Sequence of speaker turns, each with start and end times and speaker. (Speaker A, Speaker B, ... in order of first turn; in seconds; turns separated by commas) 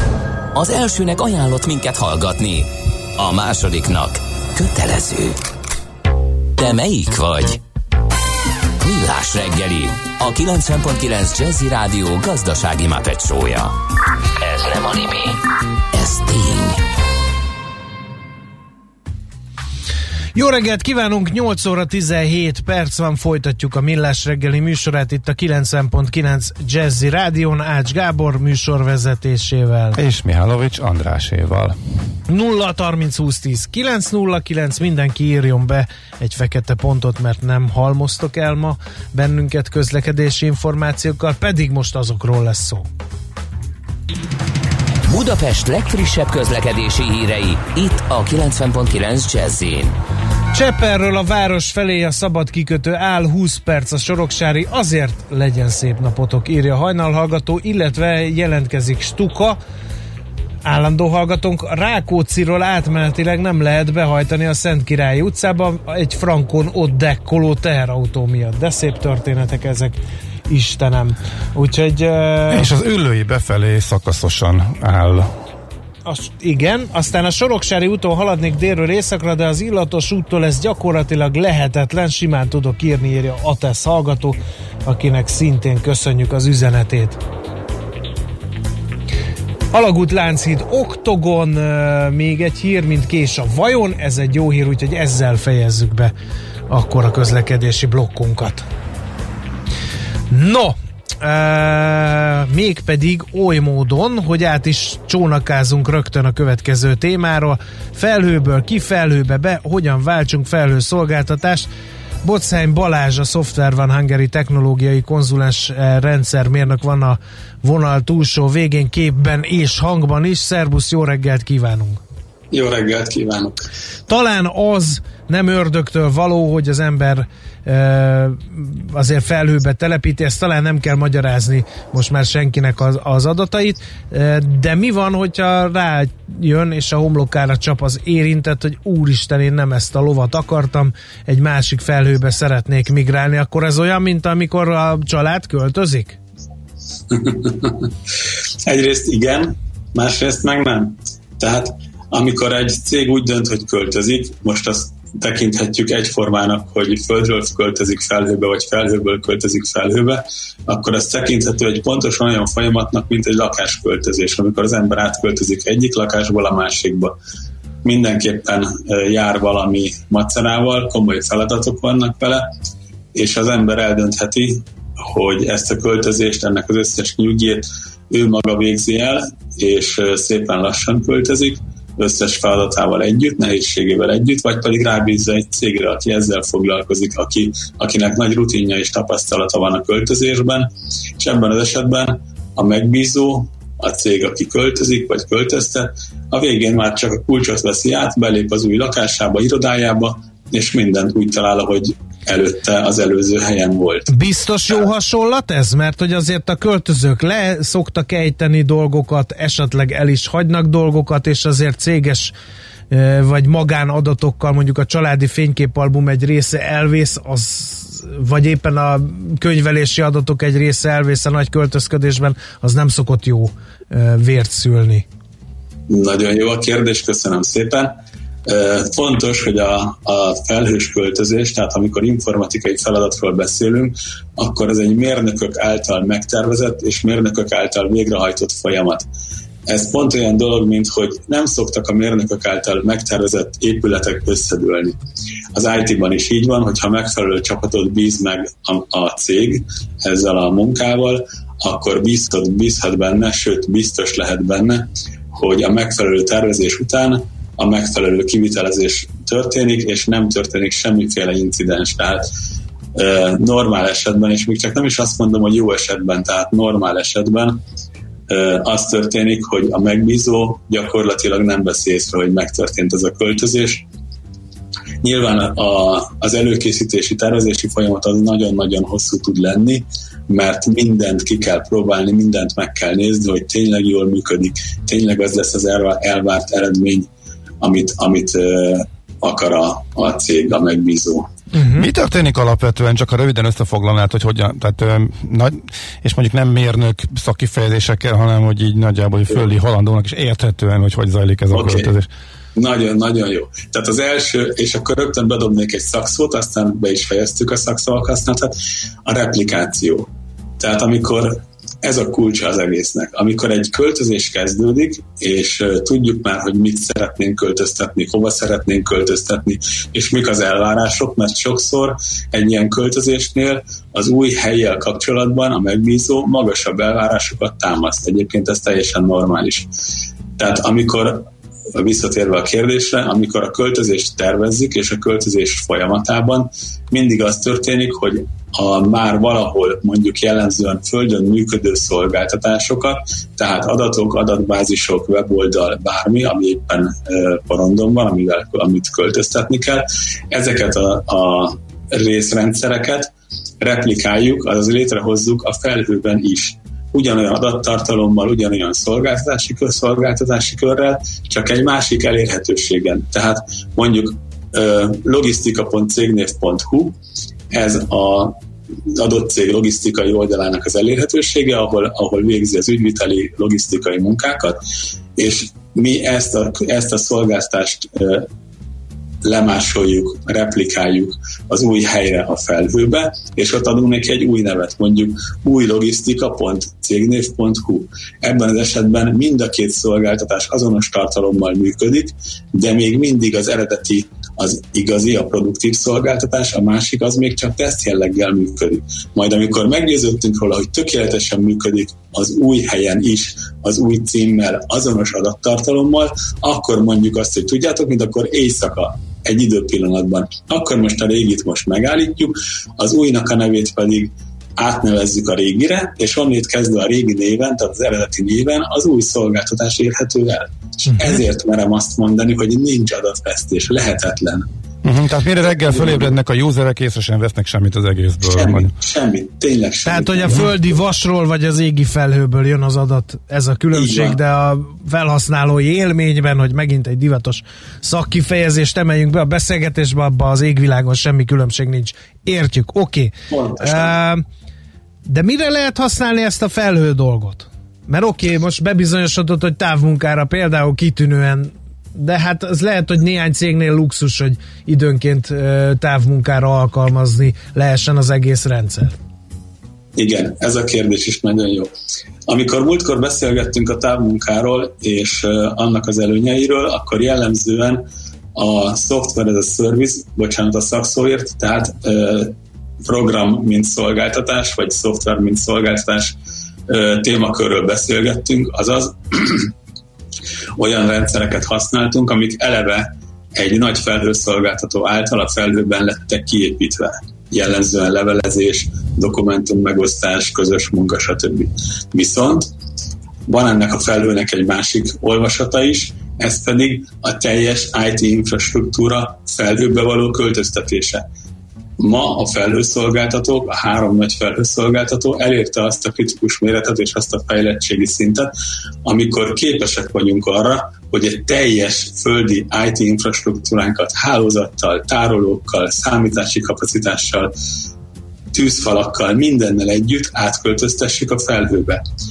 Speaker A: 0.5-5.4, Speaker A: 6.6-7.6, Speaker A: 8.8-13.8, Speaker A: 14.3-15.4, Speaker A: 15.9-16.8, Speaker B: 20.3-30.0, Speaker C: 29.9-31.8, Speaker B: 32.3-42.8, Speaker A: 45.1-49.9, Speaker B: 50.5-59.6, Speaker B: 60.6-70.0, Speaker B: 70.5-72.7, Speaker C: 72.5-75.3, Speaker B: 76.0-87.2, Speaker B: 89.7-96.1, Speaker B: 96.7-98.7, Speaker B: 100.3-111.7, Speaker B: 112.2-122.0, Speaker D: 122.5-123.7, Speaker B: 124.1-146.2, Speaker D: 147.1-147.8, Speaker D: 148.7-167.1, Speaker D: 167.8-172.4, Speaker D: 173.1-204.1, Speaker B: 204.1-212.3, Speaker B: 212.9-225.1, Speaker D: 225.9-227.9, Speaker D: 228.4-239.1, Speaker D: 239.7-244.9, Speaker D: 245.5-262.3, Speaker D: 262.9-267.6, Speaker D: 268.3-273.8, Speaker D: 275.0-287.1, Speaker D: 287.6-291.3, Speaker B: 291.5-291.9, Speaker C: 291.7-302.1, Speaker D: 301.5-301.9, Speaker D: 302.5-308.5, Speaker D: 309.1-310.1, Speaker D: 310.6-329.7, Speaker D: 330.4-353.1, Speaker D: 353.6-366.9, Speaker D: 367.5-368.4, Speaker D: 368.9-374.6, Speaker D: 375.2-378.3, Speaker D: 379.2-424.5, Speaker C: 424.8-428.7, Speaker D: 425.7-426.1, Speaker D: 428.2-430.5, Speaker B: 429.9-444.2, Speaker D: 433.7-434.2, Speaker D: 443.3-444.0, Speaker B: 445.1-459.0, Speaker D: 459.9-461.7, Speaker D: 462.3-467.8, Speaker D: 468.4-476.1, Speaker D: 476.7-479.5, Speaker D: 480.6-492.4, Speaker D: 493.3-501.0, Speaker D: 501.8-508.3, Speaker D: 508.8-517.3, Speaker D: 518.3-521.8